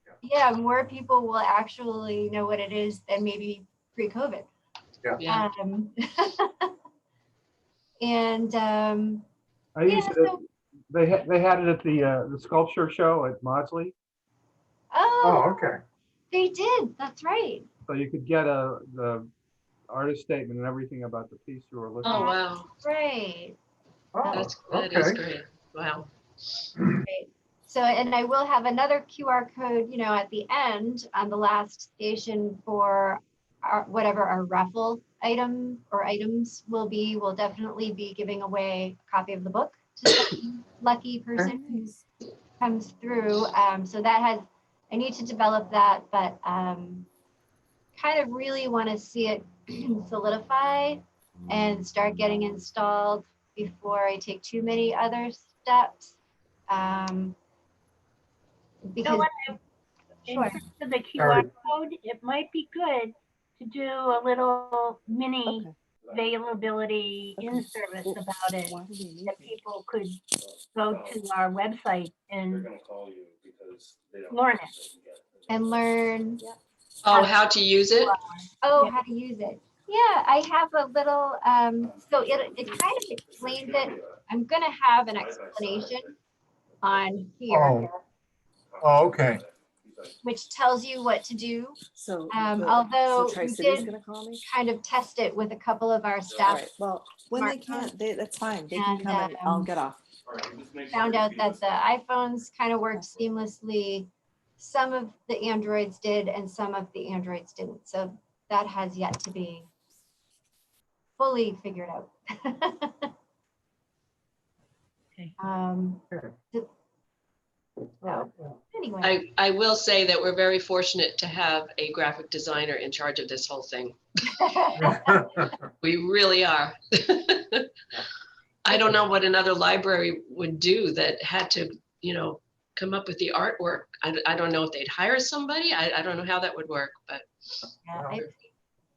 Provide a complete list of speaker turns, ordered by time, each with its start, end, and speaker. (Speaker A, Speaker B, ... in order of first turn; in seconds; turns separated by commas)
Speaker A: 0.2-4.5, Speaker B: 5.2-5.5, Speaker A: 5.3-6.7, Speaker A: 8.0-9.2, Speaker C: 9.8-10.4, Speaker A: 9.9-10.4, Speaker C: 10.9-13.9, Speaker A: 14.9-15.7, Speaker D: 15.2-15.8, Speaker A: 16.3-17.7, Speaker C: 17.9-19.3, Speaker C: 19.9-22.3, Speaker B: 22.0-22.7, Speaker A: 22.1-23.6, Speaker D: 24.1-25.2, Speaker A: 24.2-24.5, Speaker B: 24.3-26.1, Speaker D: 26.8-27.0, Speaker A: 27.1-42.0, Speaker A: 42.6-47.1, Speaker A: 48.0-56.2, Speaker A: 56.7-57.4, Speaker A: 58.9-59.3, Speaker E: 59.0-59.6, Speaker E: 60.2-70.2, Speaker A: 60.3-60.6, Speaker D: 61.2-61.5, Speaker F: 66.0-66.3, Speaker G: 67.4-69.5, Speaker E: 70.7-72.7, Speaker F: 70.9-71.2, Speaker F: 72.5-75.8, Speaker E: 74.3-74.7, Speaker A: 75.5-76.4, Speaker B: 77.0-78.1, Speaker E: 78.0-79.0, Speaker A: 78.6-86.1, Speaker F: 82.0-84.1, Speaker F: 85.5-86.0, Speaker A: 86.8-88.0, Speaker D: 87.5-87.9, Speaker F: 88.8-90.1, Speaker D: 88.8-89.4, Speaker A: 90.2-91.8, Speaker G: 92.0-94.4, Speaker A: 92.3-96.7, Speaker F: 96.3-96.7, Speaker G: 96.4-100.0, Speaker A: 97.3-97.9, Speaker A: 98.7-99.7, Speaker F: 100.3-101.6, Speaker A: 100.9-109.7, Speaker A: 111.2-113.1, Speaker A: 115.4-116.7, Speaker A: 118.0-119.2, Speaker D: 118.0-118.6, Speaker B: 119.0-124.0, Speaker A: 124.3-125.2, Speaker D: 124.8-125.5, Speaker B: 125.8-127.7, Speaker B: 128.7-137.3, Speaker A: 137.9-138.3, Speaker D: 138.0-138.2